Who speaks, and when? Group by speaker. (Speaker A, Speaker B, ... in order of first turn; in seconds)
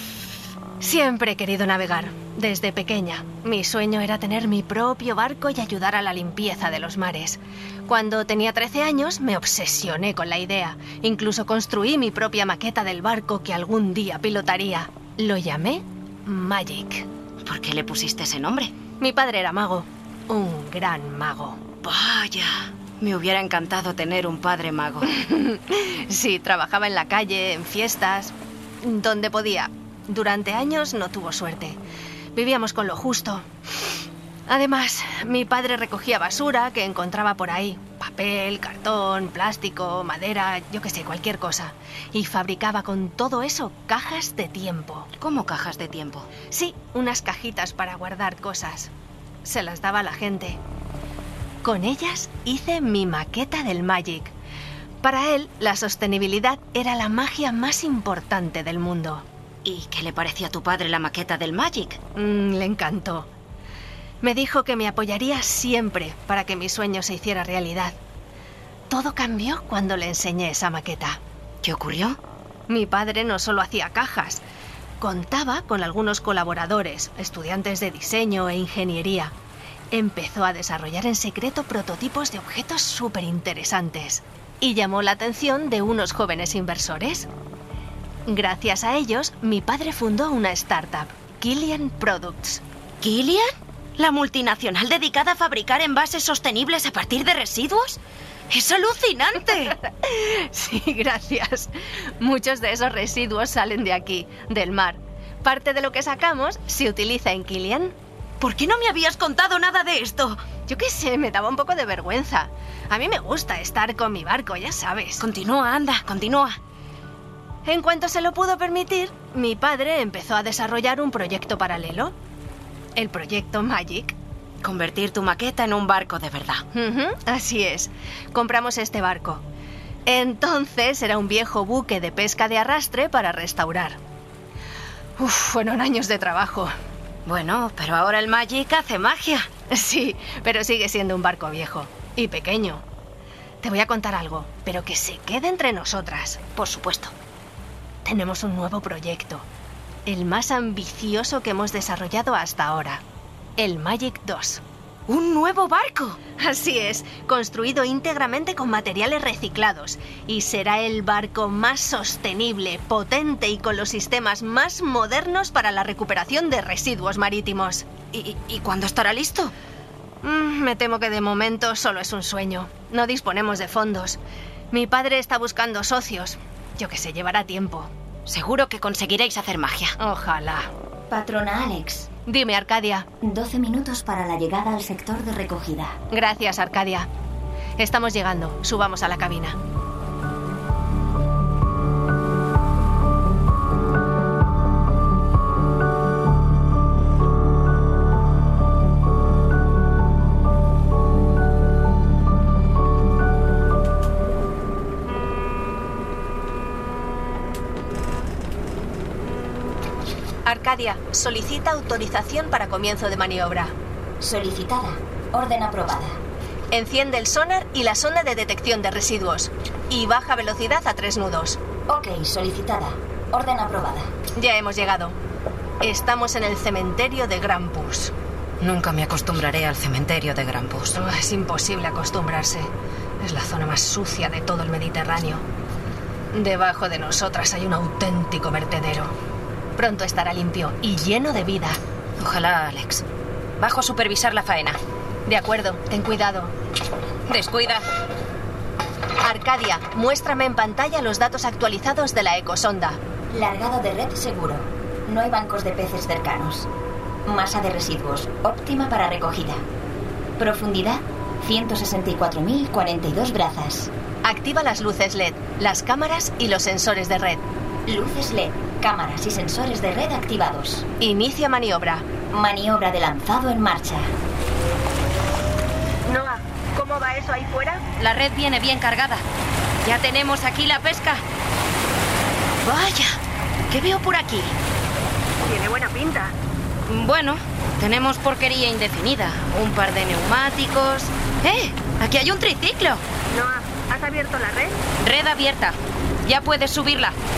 Speaker A: 0.8-17.1, 19.0-21.6, 25.0-31.8, 32.4-33.5, 34.5-45.1, 46.5-48.9, 49.5-50.6, 51.6-54.3, 55.0-59.2, 62.1-63.3, 64.2-68.0, 68.9-71.2, 72.7-74.4, 75.0-79.3, 79.9-87.3, 88.3-92.6, 99.8-108.0, 110.7-115.2, 117.7-122.1, 123.0-124.2, 126.7-129.4, 130.1-134.0, 135.2-136.7, 139.7-142.8, 143.6-146.4, 148.1-149.5, 150.1-153.0, 153.6-154.6, 156.4-167.9, 170.2-174.2, 174.7-177.9, 180.0-180.7, 182.3-183.1, 186.1-187.1, 187.8-189.6, 210.4-213.8, 216.7-221.6, 224.4-225.2, 225.8-228.1, 230.9-235.4, 236.3-239.1, 239.8-241.8, 245.3-246.5, 249.2-253.0, 264.2-267.4, 271.0-272.1, 276.1-277.8, 285.4-286.4, 293.3-294.8
Speaker B: 17.4-18.7, 21.8-25.1, 45.2-46.3, 59.6-62.0, 71.6-72.2, 93.0-98.0, 98.5-99.8, 108.4-110.4, 115.2-116.6, 124.6-126.6, 137.3-139.5, 146.6-147.1, 155.1-156.2, 168.1-169.5, 178.3-179.9, 228.6-231.0, 242.2-243.0, 243.6-244.8, 247.3-247.8, 278.0-279.2, 279.8-281.2, 282.6-283.2, 283.7-284.5, 286.9-293.0, 295.0-297.2
Speaker C: 181.1-182.1, 183.2-186.0, 214.2-216.2, 221.9-224.1, 253.3-256.7, 257.3-259.6, 260.4-263.9, 267.9-270.9, 272.3-274.1